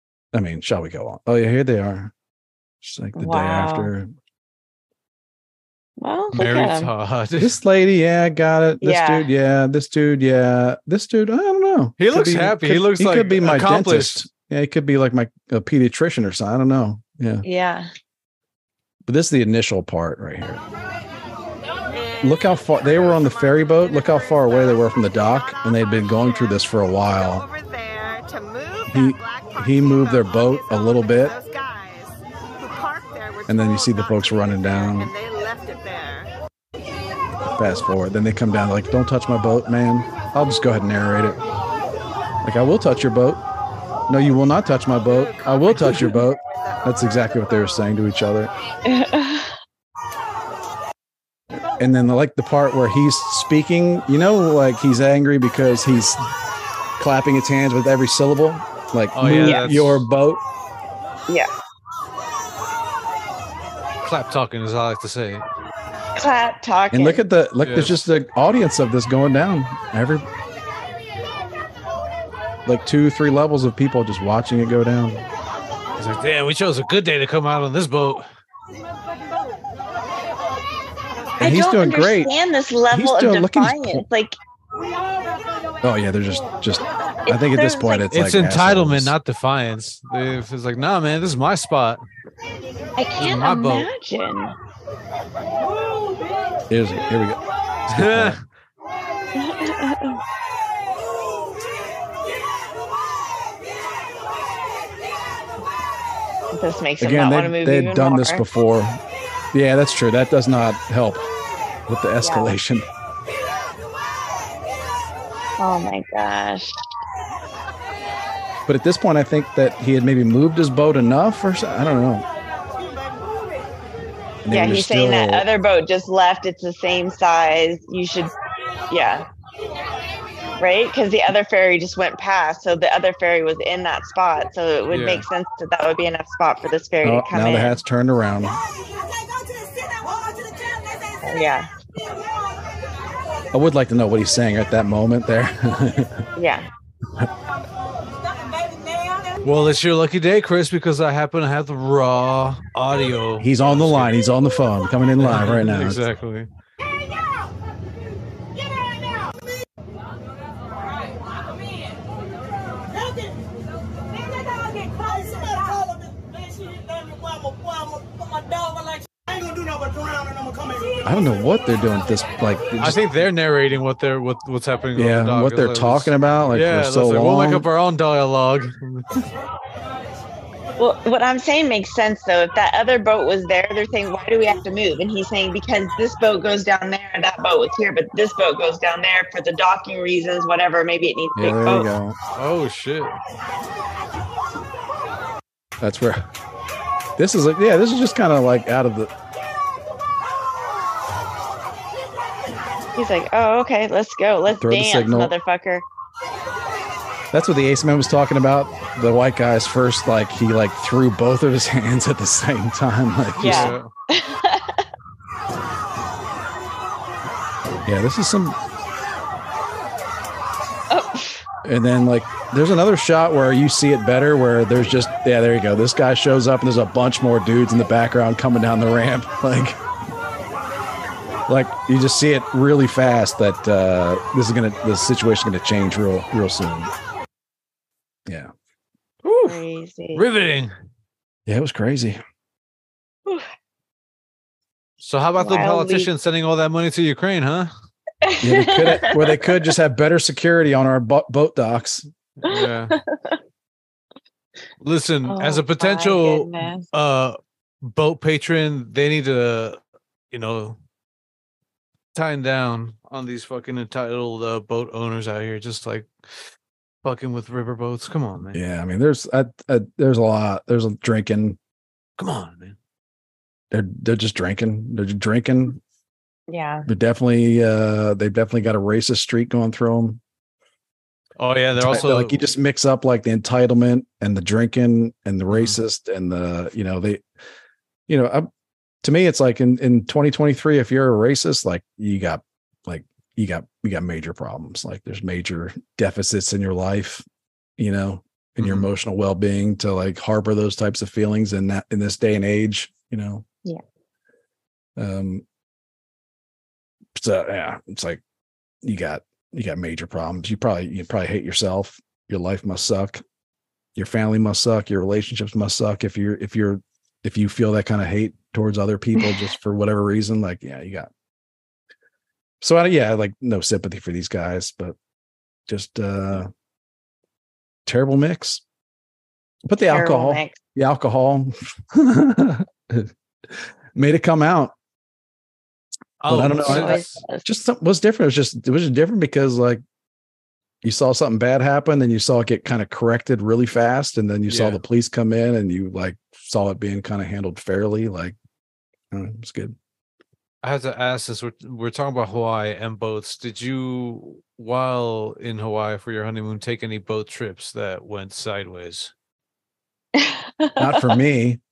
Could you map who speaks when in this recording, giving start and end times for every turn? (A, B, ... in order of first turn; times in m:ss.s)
0:00.3-0:02.1 A
0:02.8-0:04.1 A
0:03.2-0:03.9 B
0:06.0-0:06.9 B
0:06.4-0:07.6 C
0:07.4-0:17.4 A
0:08.8-0:09.3 B
0:12.0-0:14.2 C
0:17.4-0:17.9 B
0:19.1-0:20.6 A
0:22.2-0:27.5 A
0:27.4-0:32.1 D
0:28.9-0:31.4 A
0:32.6-0:36.3 D
0:33.5-0:35.1 A
0:37.6-0:41.4 A
0:42.4-0:43.4 A
0:44.1-0:48.5 A
0:45.8-0:46.1 B
0:48.9-0:49.5 B
0:51.8-0:56.2 A
0:57.0-1:00.4 A
0:59.2-1:00.1 C
0:59.4-0:59.7 B
1:04.0-1:05.4 C
1:06.2-1:07.2 B
1:06.9-1:10.3 A
1:07.6-1:08.0 C
1:12.7-1:15.2 A
1:16.0-1:18.2 C
1:21.4-1:22.3 A
1:21.4-1:24.4 B
1:22.9-1:24.0 A
1:25.8-1:29.2 A
1:27.3-1:28.1 B
1:28.1-1:32.0 C
1:33.0-1:34.6 B
1:33.2-1:33.9 C
1:36.7-1:38.4 A
1:37.9-1:38.4 C
1:39.4-1:40.2 B
1:46.5-1:48.4 B
1:47.0-1:49.0 A
1:49.5-1:51.3 A
1:51.9-1:52.9 A
1:52.2-1:52.5 B
1:55.6-1:56.8 B
1:58.7-2:02.3 A
2:04.4-2:05.4 A
2:04.5-2:08.3 B
2:08.9-2:09.3 B
2:10.6-2:17.8 B
2:14.9-2:15.2 C
2:17.0-2:18.6 A
2:21.2-2:21.7 B
2:23.5-2:26.2 A
2:26.4-2:26.7 B
2:29.4-2:34.1 C
2:33.4-2:36.0 A
2:35.2-2:36.5 C
2:45.3-2:45.6 D
2:46.6-2:47.8 D
2:51.0-2:53.1 A
2:52.8-2:59.3 C
2:55.0-2:57.7 A
3:00.8-3:11.9 B
3:11.4-3:12.2 A
3:12.4-3:13.2 C
3:15.8-3:16.3 A
3:17.2-3:19.1 A
3:23.0-3:25.8 B
3:24.6-3:25.3 A
3:27.3-3:33.8 A
3:33.4-3:33.9 C
3:33.4-3:34.9 B
3:37.8-3:38.6 A
3:40.9-3:41.4 B
3:41.6-3:49.8 A
3:51.5-3:56.9 A
3:58.3-3:58.5 A
3:59.2-3:59.6 C
3:59.4-4:00.2 B
4:00.2-4:00.7 C
4:01.5-4:02.2 A
4:05.0-4:07.7 C
4:05.4-4:06.1 B
4:08.2-4:09.6 B
4:08.4-4:12.1 A
4:12.4-4:13.0 C
4:12.5-4:13.4 B
4:14.8-4:19.8 C
4:15.2-4:16.9 B
4:20.3-4:20.8 C
4:22.2-4:26.1 C
4:27.0-4:28.6 C
4:28.5-4:31.6 A
4:32.2-4:32.8 C
4:33.7-4:35.8 A
4:36.5-4:36.9 B
4:36.9-4:40.2 A
4:41.4-4:42.5 C
4:41.8-4:47.2 A
4:45.5-4:45.8 C
4:48.1-4:48.5 A
4:49.0-4:57.2 A
4:57.8-5:03.4 A
4:58.6-4:58.9 C
5:05.0-5:05.4 A
5:07.2-5:08.2 A
5:08.8-5:13.2 A
5:14.0-5:21.1 A
5:22.6-5:25.0 A
5:25.7-5:26.5 A
5:27.9-5:28.6 A
5:29.7-5:34.7 A
5:29.9-5:30.6 B
5:36.2-5:37.2 C
5:36.3-5:39.8 A
5:36.6-5:37.5 B
5:40.8-5:48.4 A
5:44.5-5:44.8 C
5:49.1-5:49.8 A
5:50.6-5:59.1 C
6:00.2-6:01.1 B
6:00.8-6:01.6 A